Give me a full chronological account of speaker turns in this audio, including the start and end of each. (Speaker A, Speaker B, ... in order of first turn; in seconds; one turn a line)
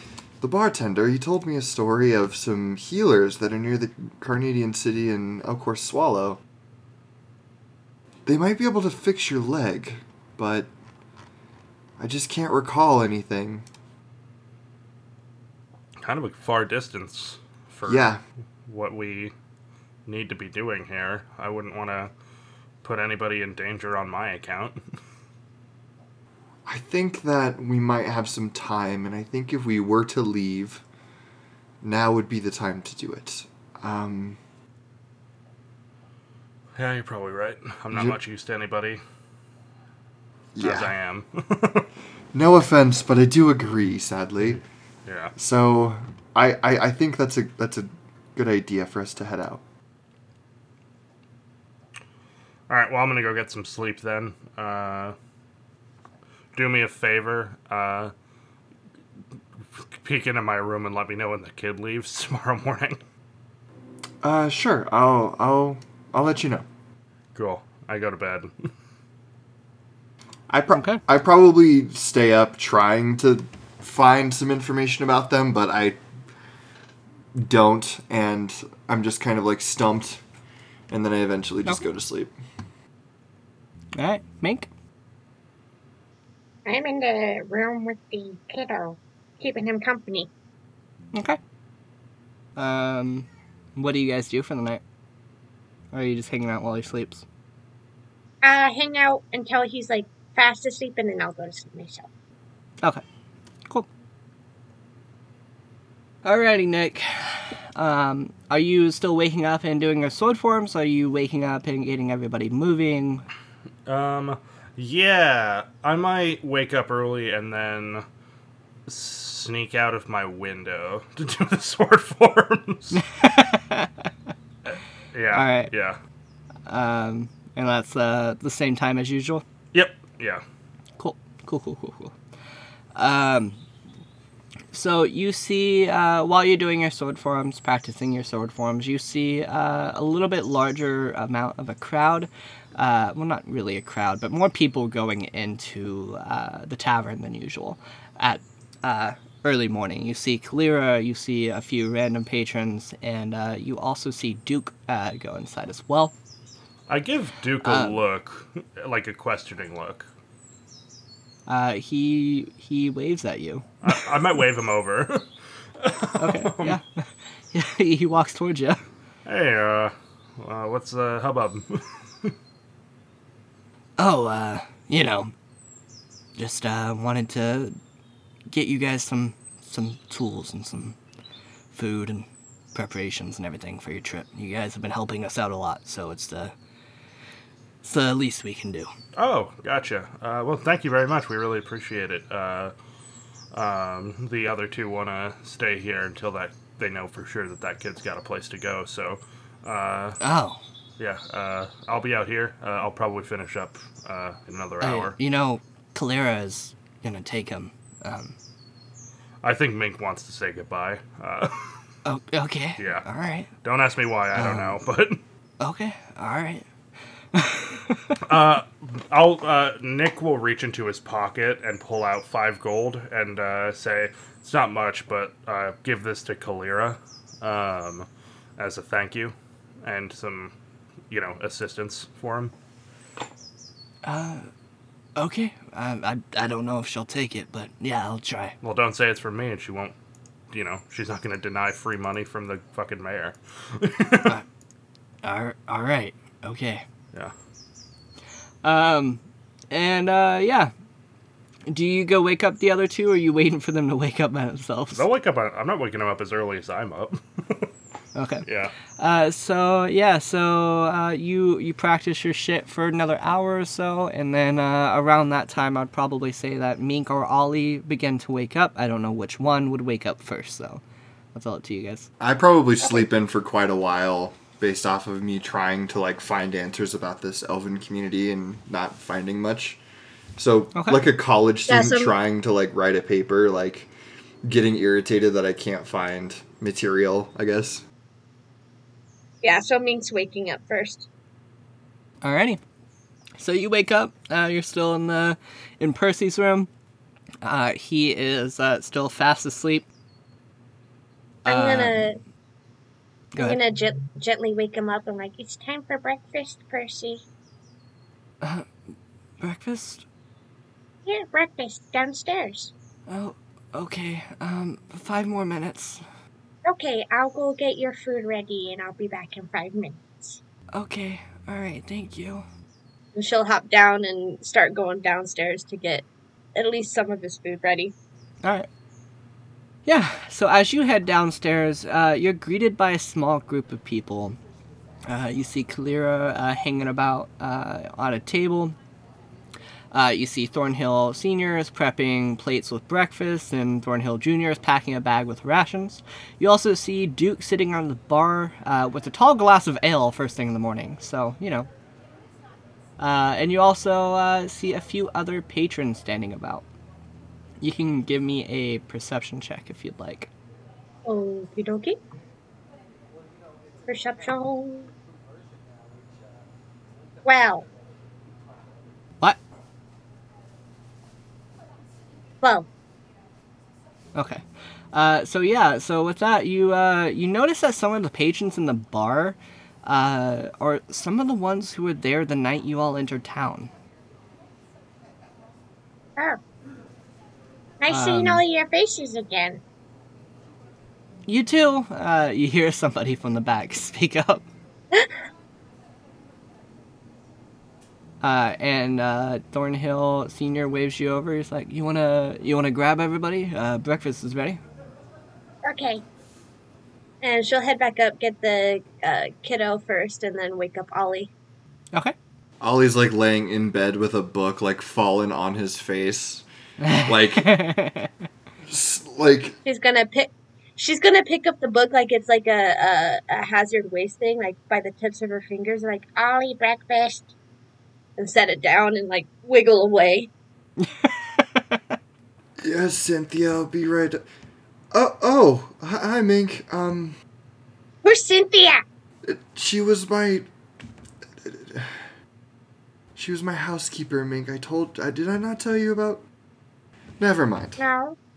Speaker A: 0.4-6.4
Speaker A: 8.2-10.7
Speaker A: 12.0-13.6
Speaker B: 16.0-18.1
Speaker A: 17.9-18.2
Speaker B: 18.7-19.3
Speaker B: 20.1-22.1
Speaker B: 22.8-24.8
Speaker A: 26.6-30.8
Speaker A: 31.8-34.4
Speaker B: 36.8-39.0
Speaker A: 37.9-38.2
Speaker A: 40.5-40.9
Speaker B: 40.6-41.9
Speaker A: 42.3-44.6
Speaker B: 45.0-45.3
Speaker A: 45.4-49.6
Speaker B: 52.7-55.1
Speaker B: 56.5-58.1
Speaker B: 59.9-63.0
Speaker A: 64.2-66.6
Speaker B: 67.3-68.7
Speaker A: 70.5-76.0
Speaker C: 70.7-71.0
Speaker A: 77.3-80.2
Speaker A: 80.9-82.3
Speaker C: 83.9-84.7
Speaker D: 86.7-90.3
Speaker C: 92.5-94.8
Speaker C: 95.9-97.2
Speaker D: 98.4-102.0
Speaker C: 106.2-113.2
Speaker B: 113.8-118.0
Speaker B: 118.9-123.0
Speaker C: 122.9-123.9
Speaker B: 125.1-126.0
Speaker C: 125.3-125.7
Speaker C: 126.7-129.4
Speaker B: 129.7-130.4
Speaker C: 131.0-132.1
Speaker C: 132.9-133.6
Speaker C: 134.7-156.1
Speaker B: 156.9-160.1
Speaker C: 157.6-158.0
Speaker C: 161.5-163.7
Speaker B: 163.8-165.2
Speaker B: 165.8-166.8
Speaker C: 166.2-168.8
Speaker B: 169.2-172.3
Speaker C: 174.0-175.3
Speaker C: 176.4-177.8
Speaker C: 178.5-180.9
Speaker C: 181.7-186.5
Speaker C: 187.8-188.9
Speaker B: 189.2-192.7
Speaker B: 193.5-200.2
Speaker C: 200.2-200.6
Speaker B: 201.0-205.2
Speaker C: 204.8-208.3
Speaker B: 209.4-211.8
Speaker C: 212.0-213.5
Speaker B: 212.8-213.0
Speaker B: 213.6-215.2
Speaker C: 214.3-214.8
Speaker C: 215.6-216.6
Speaker C: 217.3-218.2
Speaker B: 218.2-228.1
Speaker B: 228.6-230.5
Speaker B: 231.1-232.5
Speaker C: 234.0-234.5
Speaker C: 235.2-238.5
Speaker B: 238.6-239.9
Speaker B: 240.5-244.4
Speaker C: 245.2-246.8
Speaker C: 248.6-250.7
Speaker C: 251.7-255.1
Speaker B: 254.9-257.7
Speaker C: 258.1-258.4
Speaker B: 258.4-258.7
Speaker C: 259.0-270.8
Speaker C: 271.3-272.1
Speaker A: 272.2-279.8
Speaker A: 280.4-283.9
Speaker C: 280.7-281.0
Speaker D: 281.7-282.1
Speaker A: 284.4-287.8
Speaker D: 289.4-291.1
Speaker C: 292.2-292.6
Speaker C: 293.4-296.7
Speaker C: 297.4-299.9
Speaker C: 301.4-302.1
Speaker D: 301.4-302.2
Speaker C: 303.3-303.6
Speaker D: 303.4-307.2
Speaker C: 308.4-308.7
Speaker C: 309.4-310.0
Speaker D: 311.1-312.7
Speaker C: 313.1-316.0
Speaker D: 316.6-320.4
Speaker C: 320.7-322.4
Speaker D: 323.1-327.9
Speaker C: 329.9-334.4
Speaker C: 335.1-338.8
Speaker C: 339.9-351.7
Speaker C: 353.0-356.6
Speaker C: 357.6-360.3
Speaker D: 361.1-362.0
Speaker D: 363.9-364.9
Speaker D: 367.2-367.6
Speaker D: 372.4-372.7
Speaker C: 374.1-374.4
Speaker C: 374.9-383.7
Speaker D: 387.8-389.6
Speaker C: 387.9-388.4
Speaker C: 391.3-394.4
Speaker C: 398.2-404.6
Speaker D: 405.6-406.0
Speaker D: 407.2-411.3
Speaker A: 412.6-416.4
Speaker C: 416.8-418.1
Speaker A: 417.0-417.5
Speaker A: 418.6-419.6
Speaker D: 419.6-427.3
Speaker D: 428.2-430.3
Speaker C: 430.8-431.8
Speaker A: 432.6-434.2
Speaker A: 434.9-437.2
Speaker D: 438.0-438.8
Speaker A: 439.2-440.5
Speaker A: 441.4-442.0
Speaker A: 443.1-446.2
Speaker A: 447.2-447.8
Speaker D: 447.8-448.1